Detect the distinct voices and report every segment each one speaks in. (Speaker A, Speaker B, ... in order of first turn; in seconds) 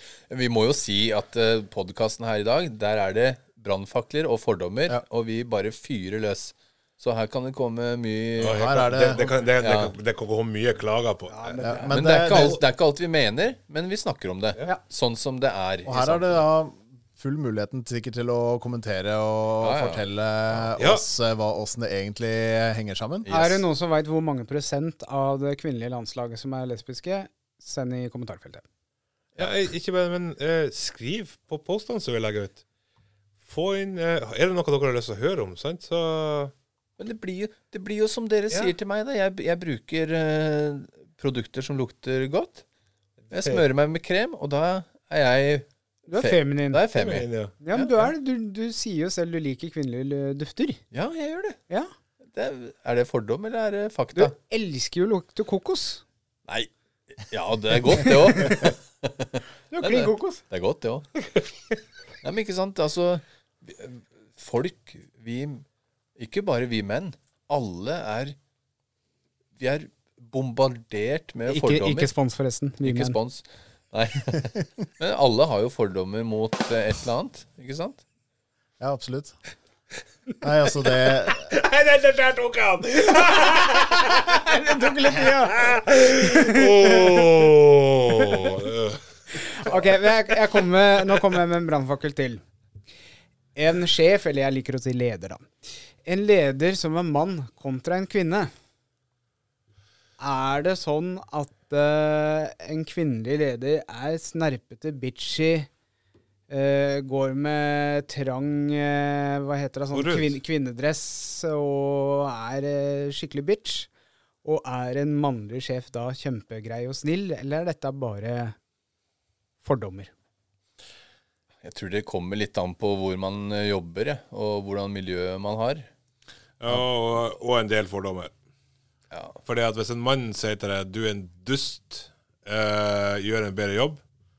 Speaker A: 0.3-9.9, 11.7-16.4, 19.6-20.0, 23.2-23.6, 37.0-42.6, 43.3-47.9, 50.9-51.6, 52.3-54.3, 56.5-61.1, 62.2-65.6, 66.2-68.3, 69.6-72.1, 72.8-78.0, 121.6-125.9, 129.1-129.4
Speaker B: 8.4-11.6, 20.8-21.0, 29.4-32.6, 33.4-36.5, 43.3-43.6, 46.9-47.5, 81.0-90.3, 109.9-110.4, 126.6-128.3, 129.4-134.0
Speaker C: 8.4-9.2, 11.6-12.6, 15.8-23.3, 78.8-79.3, 80.4-81.5
Speaker D: 11.3-12.0, 23.3-28.6, 46.1-46.8, 47.6-50.8, 54.1-56.0, 59.7-60.4, 71.5-73.2, 84.4-85.7, 86.2-86.7, 89.3-92.4, 93.5-95.5, 96.0-98.5, 100.2-105.7, 106.5-113.9, 114.4-118.5, 119.6-120.1